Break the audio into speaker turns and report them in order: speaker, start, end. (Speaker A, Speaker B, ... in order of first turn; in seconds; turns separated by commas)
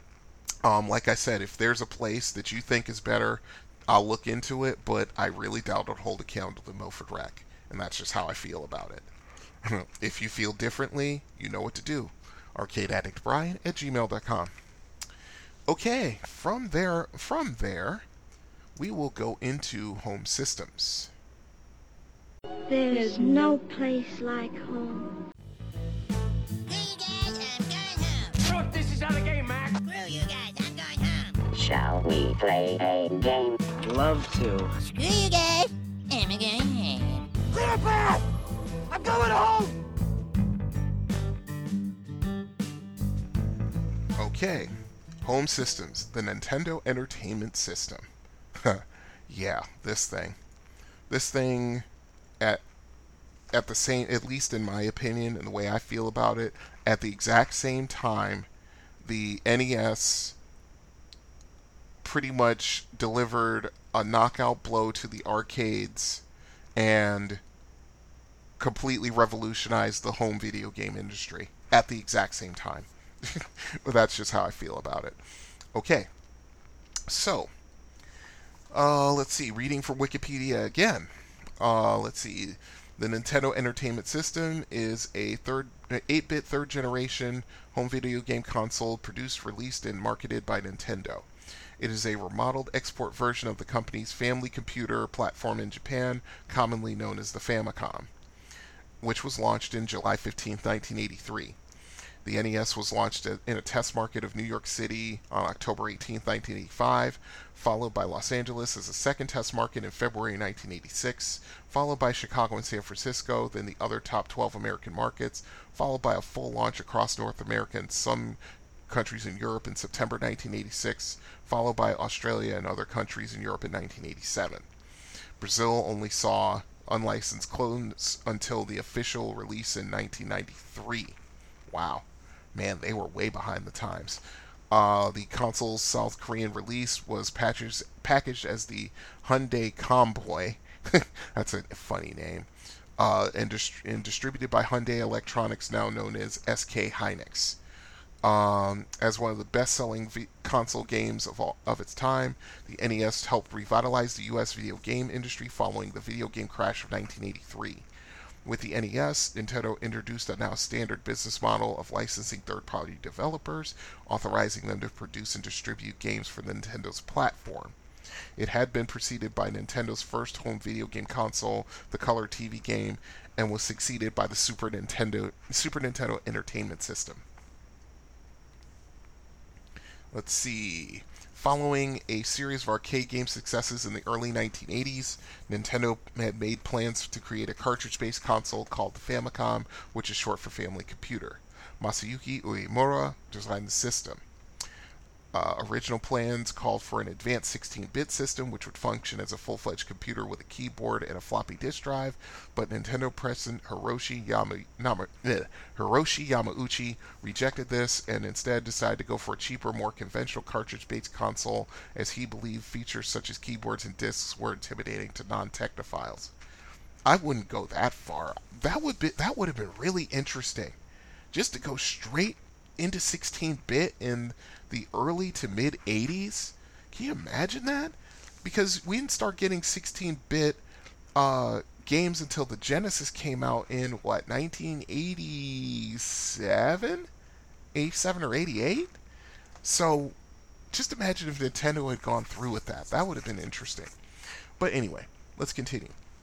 Speaker A: 0.6-9.1, Speaker A: 9.6-14.5, Speaker A: 15.7-18.1, Speaker A: 18.8-21.1, Speaker B: 22.7-25.1, Speaker C: 26.7-28.4, Speaker D: 28.5-29.7, Speaker C: 29.8-31.4, Speaker E: 31.5-33.6, Speaker D: 33.9-34.7, Speaker C: 34.8-37.3, Speaker D: 37.6-38.1, Speaker D: 38.9-39.7, Speaker A: 44.2-48.1, Speaker A: 48.6-50.4, Speaker A: 51.1-51.9, Speaker A: 53.5-58.5, Speaker A: 59.0-60.4, Speaker A: 62.0-66.2, Speaker A: 66.8-67.4, Speaker A: 68.6-75.2, Speaker A: 75.7-76.1, Speaker A: 77.1-77.5, Speaker A: 78.7-91.3, Speaker A: 91.8-98.1, Speaker A: 99.0-101.6, Speaker A: 102.2-124.7, Speaker A: 125.4-131.2, Speaker A: 131.7-147.6, Speaker A: 148.2-157.9, Speaker A: 158.4-167.8, Speaker A: 168.4-177.2, Speaker A: 180.1-194.2, Speaker A: 195.3-216.3, Speaker A: 217.1-220.8, Speaker A: 221.3-230.6, Speaker A: 231.2-237.1, Speaker A: 237.8-239.0, Speaker A: 239.6-240.2, Speaker A: 240.7-243.9, Speaker A: 244.6-245.9